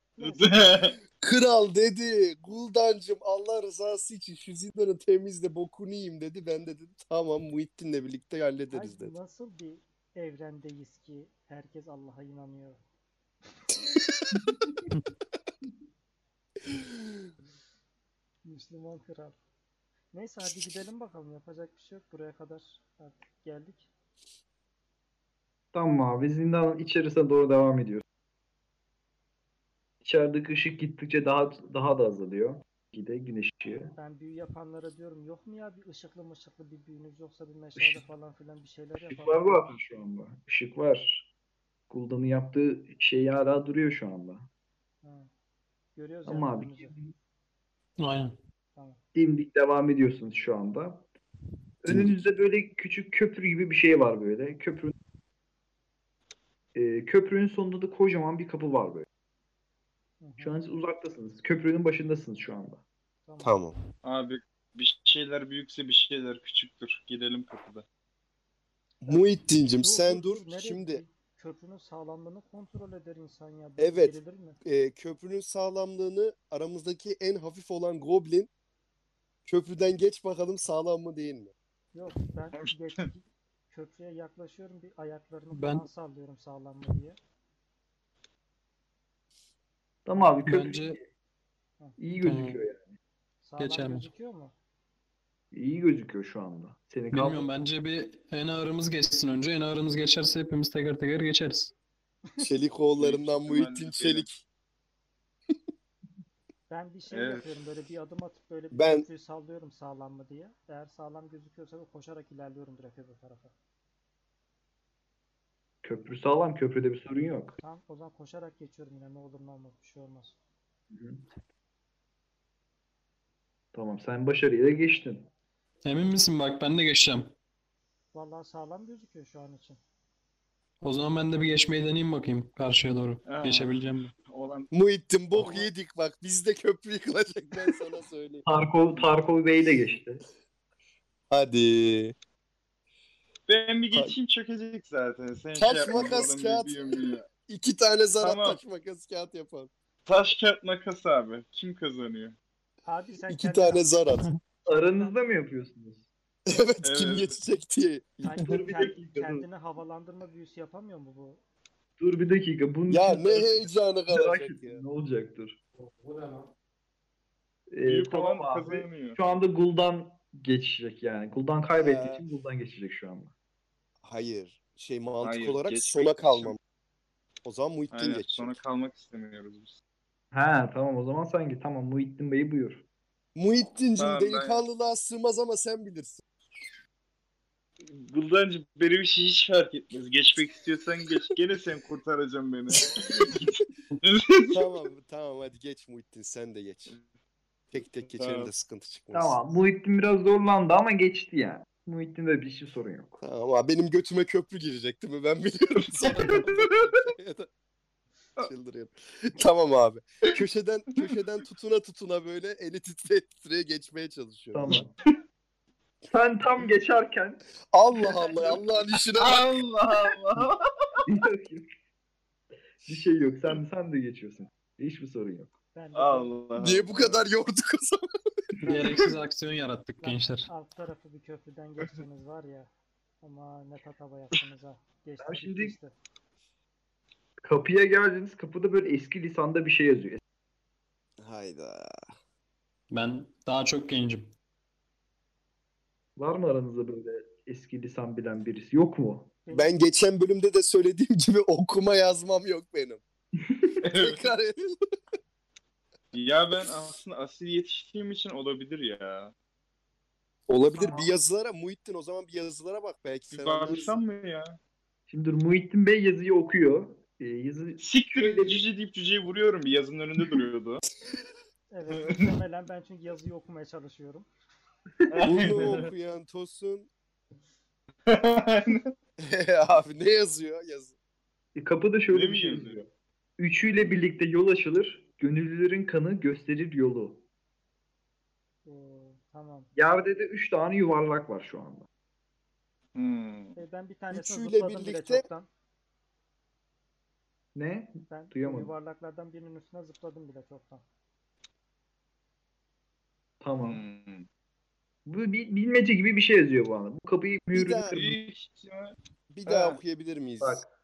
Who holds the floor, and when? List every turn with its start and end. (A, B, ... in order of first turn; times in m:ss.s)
0:00.2-0:00.6 A
0:00.2-0:01.0 B
0:01.2-0:09.1 C
0:08.7-0:12.8 A
0:18.4-0:19.4 A
0:20.1-0:23.9 A
0:25.7-0:28.0 D
0:30.0-0:33.9 D
0:34.0-0:39.6 A
0:37.8-0:38.0 D
0:39.0-0:41.3 D
0:41.9-0:44.5 D
0:45.0-0:45.3 A
0:46.0-0:47.0 A
0:46.3-0:47.1 D
0:48.0-0:48.4 E
0:49.2-0:51.1 D
0:51.8-0:54.9 D
0:51.9-0:52.2 C
0:56.8-0:59.1 D
1:00.2-1:00.6 A
1:00.4-1:02.8 D
1:03.3-1:03.6 A
1:03.4-1:03.8 C
1:04.0-1:07.8 B
1:09.0-1:11.0 C
1:09.1-1:14.6 A
1:13.8-1:18.5 C
1:19.5-1:21.5 C
1:21.9-1:27.2 A
1:22.6-1:23.1 B
1:25.5-1:25.9 E
1:30.1-1:31.1 D
1:30.4-1:31.0 E
1:32.0-1:33.0 D
1:32.2-1:32.6 E
1:33.4-1:34.5 A
1:33.6-1:34.1 E
1:35.5-1:37.5 D
1:37.1-1:41.7 E
1:42.4-1:44.4 C
1:43.0-1:44.3 B
1:46.7-1:53.5 A
1:47.1-1:47.4 B
1:48.7-1:49.1 C
1:55.8-1:57.6 D
1:57.6-2:00.4 A
2:00.9-2:01.2 D
2:03.7-2:05.3 D
2:05.8-2:07.3 E
2:08.1-2:09.8 A
2:10.8-2:14.1 E
2:13.2-2:14.7 B
2:14.7-2:18.4 C
2:15.4-2:15.6 B
2:18.5-2:20.2 D
2:21.3-2:22.2 C
2:23.5-2:27.3 B
2:25.6-2:26.8 C
2:27.3-2:29.7 C
2:28.2-2:28.6 B
2:30.1-2:32.4 B
2:32.8-2:33.9 A
2:33.3-2:34.2 C
2:34.7-2:36.0 D
2:36.5-2:38.4 C
2:36.8-2:37.3 B
2:38.2-2:41.4 A
2:38.5-2:39.4 D
2:42.0-2:45.6 D
2:42.9-2:44.8 C
2:45.8-2:46.5 E
2:47.7-2:53.3 D
2:47.9-2:49.2 B
2:51.8-2:52.2 C
2:54.0-2:56.6 C
2:55.2-2:56.6 B
2:57.4-2:58.5 C
2:57.9-2:59.8 B
3:00.3-3:02.8 D
3:03.4-3:06.2 C
3:04.0-3:04.6 B
3:07.9-3:14.6 B
3:14.5-3:16.9 C
3:17.7-3:19.4 C
3:18.0-3:18.5 B
3:19.1-3:23.2 D
3:23.2-3:27.5 C
3:25.8-3:27.0 B
3:28.4-3:34.8 C
3:34.5-3:34.9 D
3:36.1-3:37.4 D
3:37.7-3:39.4 C
3:39.2-3:41.0 B
3:41.1-3:41.7 D
3:42.8-3:45.5 D
3:45.7-3:46.3 A
3:45.9-3:47.2 B
3:46.6-3:48.0 C
3:48.6-3:50.5 E
3:50.0-3:52.7 A
3:53.2-3:55.9 A
3:55.2-3:55.8 D
3:57.4-4:00.2 D
4:01.2-4:02.1 C
4:02.9-4:04.3 E
4:06.2-4:09.3 D
4:09.5-4:09.8 A
4:09.5-4:13.0 C
4:13.5-4:13.8 D
4:13.8-4:14.3 B
4:14.0-4:14.7 C
4:16.1-4:19.3 B
4:20.5-4:24.0 C
4:20.8-4:21.1 D
4:23.3-4:24.6 B
4:25.1-4:28.6 D
4:27.8-4:30.8 B
4:31.7-4:34.3 A
4:31.9-4:32.3 B
4:35.1-4:35.8 B
4:35.2-4:35.6 D
4:35.2-4:36.9 C
4:38.1-4:38.9 B
4:39.2-4:40.9 C
4:41.6-4:47.2 D
4:42.1-4:42.8 B
4:48.6-4:49.7 A
4:49.8-4:51.9 D
4:53.0-4:53.6 B
4:53.6-4:55.5 A
4:54.1-4:55.3 C
4:57.6-4:58.7 D
4:58.1-5:00.8 A
5:03.4-5:03.8 D
5:03.6-5:04.3 B
5:05.1-5:08.2 D
5:07.5-5:08.0 C
5:07.9-5:09.8 B
5:09.3-5:10.6 C
5:10.4-5:10.7 D